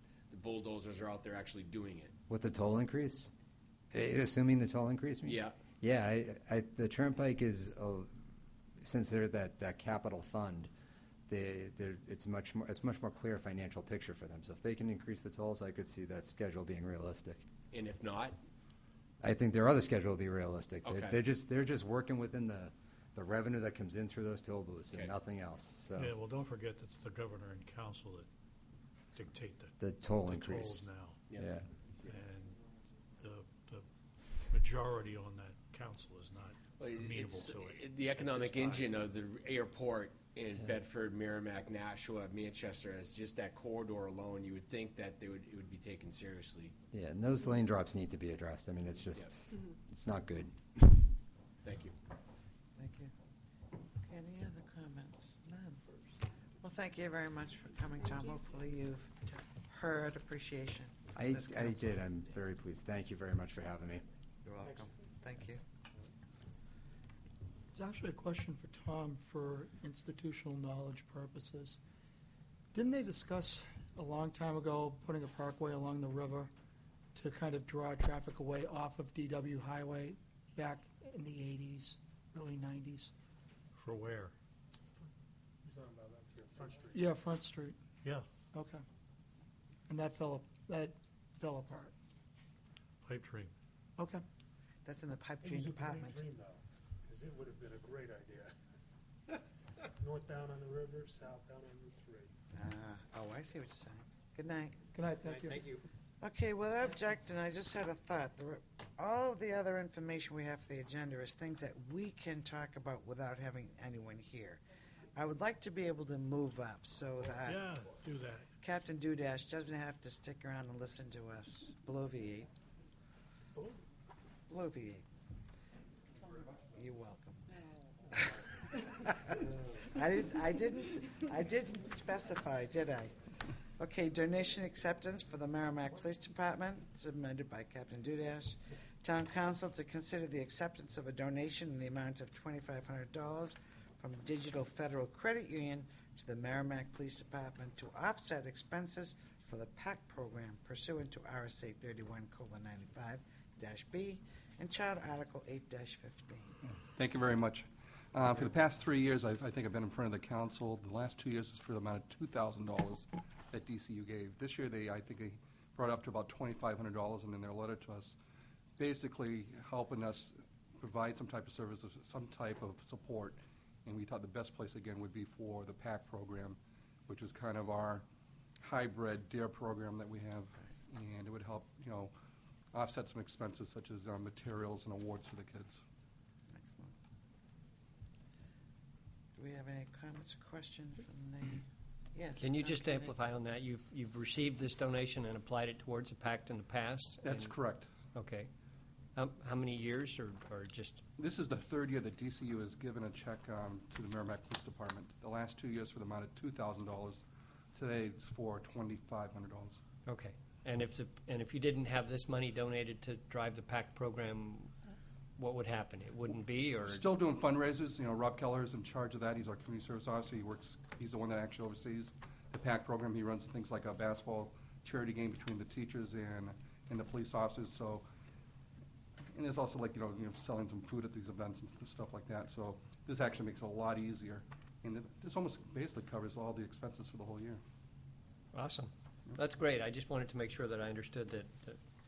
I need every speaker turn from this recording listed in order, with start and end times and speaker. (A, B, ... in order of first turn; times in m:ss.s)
0:00.3-0:02.1 A
0:02.3-0:03.3 B
0:03.9-0:08.1 B
0:05.2-0:05.6 A
0:08.8-0:10.7 B
0:11.3-0:17.4 B
0:17.7-0:18.4 A
0:19.2-0:26.2 B
0:20.8-0:21.2 A
0:26.0-0:28.3 C
0:29.1-0:29.7 C
0:29.8-0:31.7 B
0:30.2-0:31.2 C
0:32.1-0:32.6 C
0:33.2-0:33.9 C
0:34.5-0:38.9 C
0:36.8-0:46.8 A
0:46.9-0:51.1 B
0:51.6-0:52.0 A
0:52.8-0:53.1 D
0:54.0-1:02.0 D
1:01.2-1:04.0 B
1:04.4-1:05.6 D
1:07.7-1:11.8 E
1:12.7-1:16.5 E
1:17.2-1:23.1 E
1:23.7-1:24.3 C
1:25.6-1:27.0 F
1:26.9-1:27.8 E
1:28.5-1:28.8 E
1:29.9-1:31.9 E
1:33.0-1:33.5 C
1:34.0-1:34.2 E
1:34.8-1:36.3 D
1:35.5-1:38.5 F
1:40.0-1:42.3 F
1:42.5-1:44.8 D
1:44.9-1:45.7 E
1:45.2-1:45.8 G
1:46.2-1:54.6 D
1:55.2-1:58.0 D
1:57.5-1:58.5 C
1:58.6-2:02.5 D
2:04.5-2:05.0 D
2:06.7-2:07.4 D
2:08.1-2:13.1 D
2:13.8-2:36.6 D
2:37.0-2:48.2 H
2:48.8-2:58.0 H
2:58.6-3:02.1 H
3:02.7-3:05.8 H
3:06.5-3:06.9 D
3:09.4-3:13.2 D
3:12.4-3:17.6 G
3:17.2-3:17.9 H
3:18.1-3:18.5 G
3:19.2-3:21.0 G
3:21.2-3:29.8 H
3:30.0-3:34.7 G
3:35.4-3:37.1 G
3:36.8-3:48.0 H
3:49.3-3:57.6 H
3:58.5-4:01.8 G